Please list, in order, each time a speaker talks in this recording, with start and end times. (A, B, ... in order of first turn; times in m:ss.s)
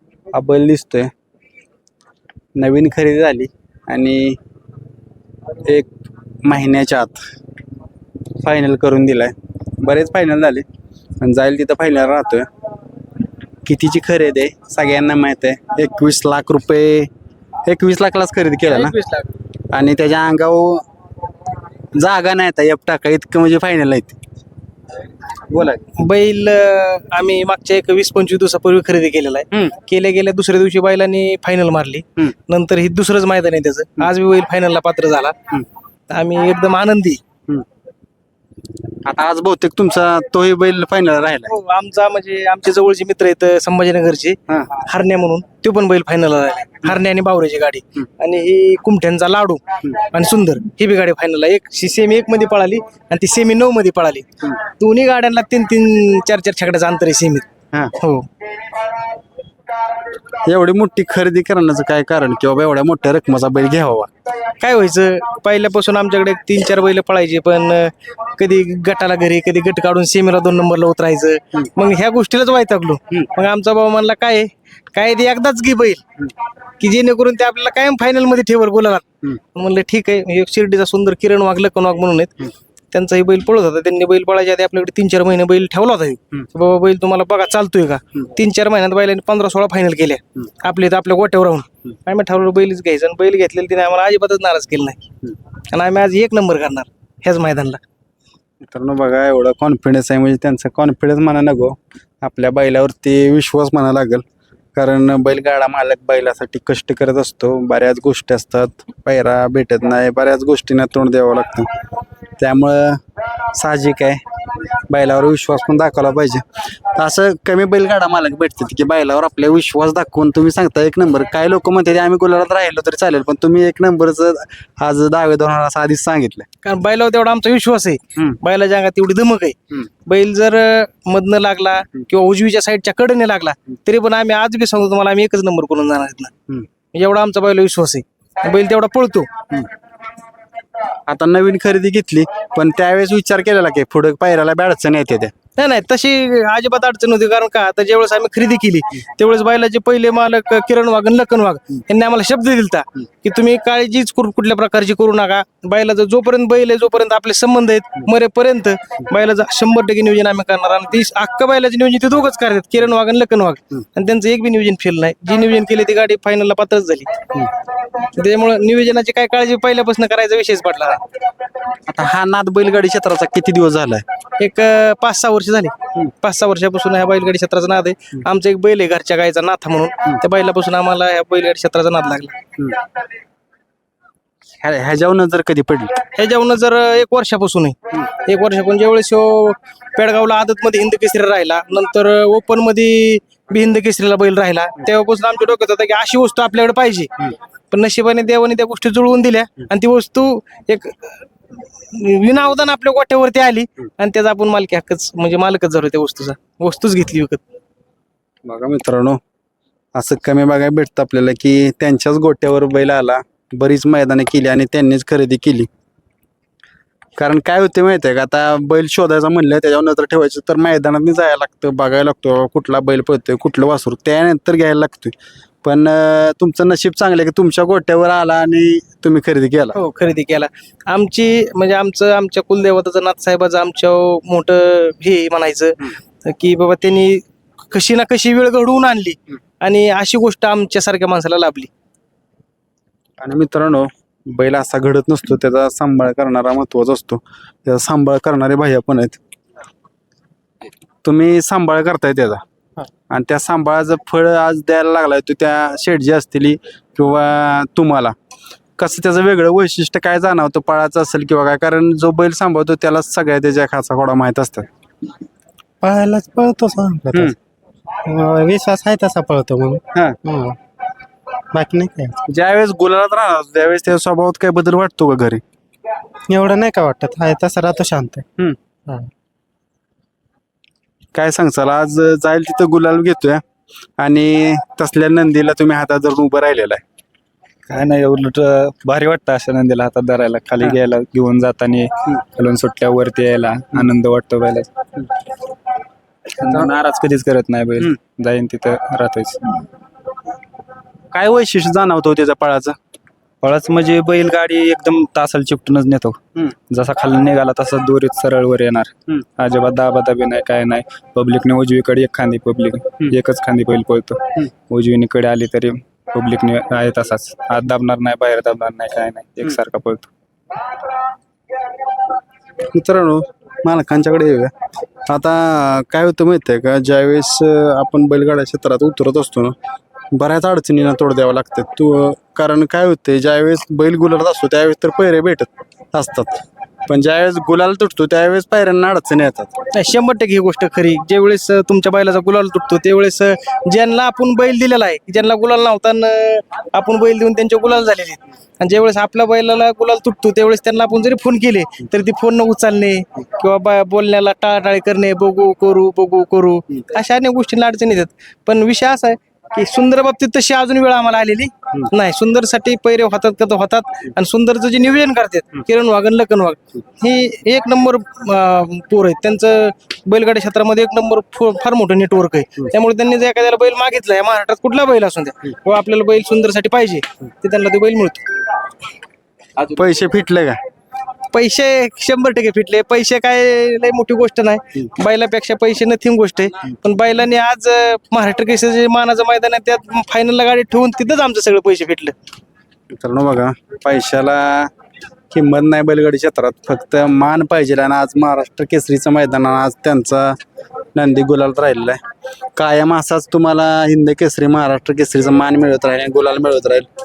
0:00.3-0:01.1 A
0:02.6-0:04.4 A
0:05.6-0:05.9 A
0:06.4-0:07.2 A
0:08.4-0:10.6 A
0:11.2-0:12.5 A
0:13.6-0:17.1 A
0:17.7-0:19.0 A
0:18.7-0:19.3 B
0:19.7-0:20.8 A
0:22.0-0:24.2 A
0:25.5-0:25.8 A
0:26.0-0:35.3 B
0:36.1-0:37.2 B
0:39.0-0:41.5 A
0:41.5-0:58.3 B
1:00.4-1:04.1 A
1:04.5-1:16.0 B
1:16.8-1:35.0 B
1:35.7-1:37.8 B
1:38.6-1:44.2 A
1:44.7-1:51.7 A
1:52.4-1:53.0 A
1:53.5-1:54.2 A
1:54.9-1:56.4 A
1:56.9-2:06.4 A
2:06.6-2:16.3 B
2:16.9-2:19.3 B
2:21.1-2:25.3 A
2:25.6-2:47.2 B
2:48.1-2:51.0 B
2:51.9-2:54.0 A
2:54.4-3:02.4 B
3:04.6-3:06.0 A
3:06.0-3:27.4 B
3:28.4-3:29.2 A
3:29.9-3:35.7 A
3:37.2-3:49.8 A
3:49.8-4:01.7 B
4:03.2-4:09.2 A
4:11.0-4:12.4 A
4:13.1-4:18.2 A
4:18.8-4:24.7 A
4:25.8-4:27.3 C
4:28.0-4:30.6 C
4:29.9-4:30.2 A
4:31.5-4:32.2 C
4:32.3-4:35.4 A
4:36.3-4:38.2 C
4:41.1-4:43.4 A
4:44.0-4:46.8 A
4:47.7-4:54.7 D
4:56.4-4:59.4 D
5:01.1-5:02.8 A
5:03.4-5:06.2 D
5:06.7-5:20.1 D
5:22.7-5:24.5 A
5:25.1-5:29.6 A
5:30.1-5:39.5 A
5:39.7-6:18.3 B
6:19.6-6:20.6 A
6:21.3-6:32.2 B
6:33.0-6:34.7 A
6:35.3-6:40.4 A
6:41.0-6:42.0 A
6:42.6-6:46.9 A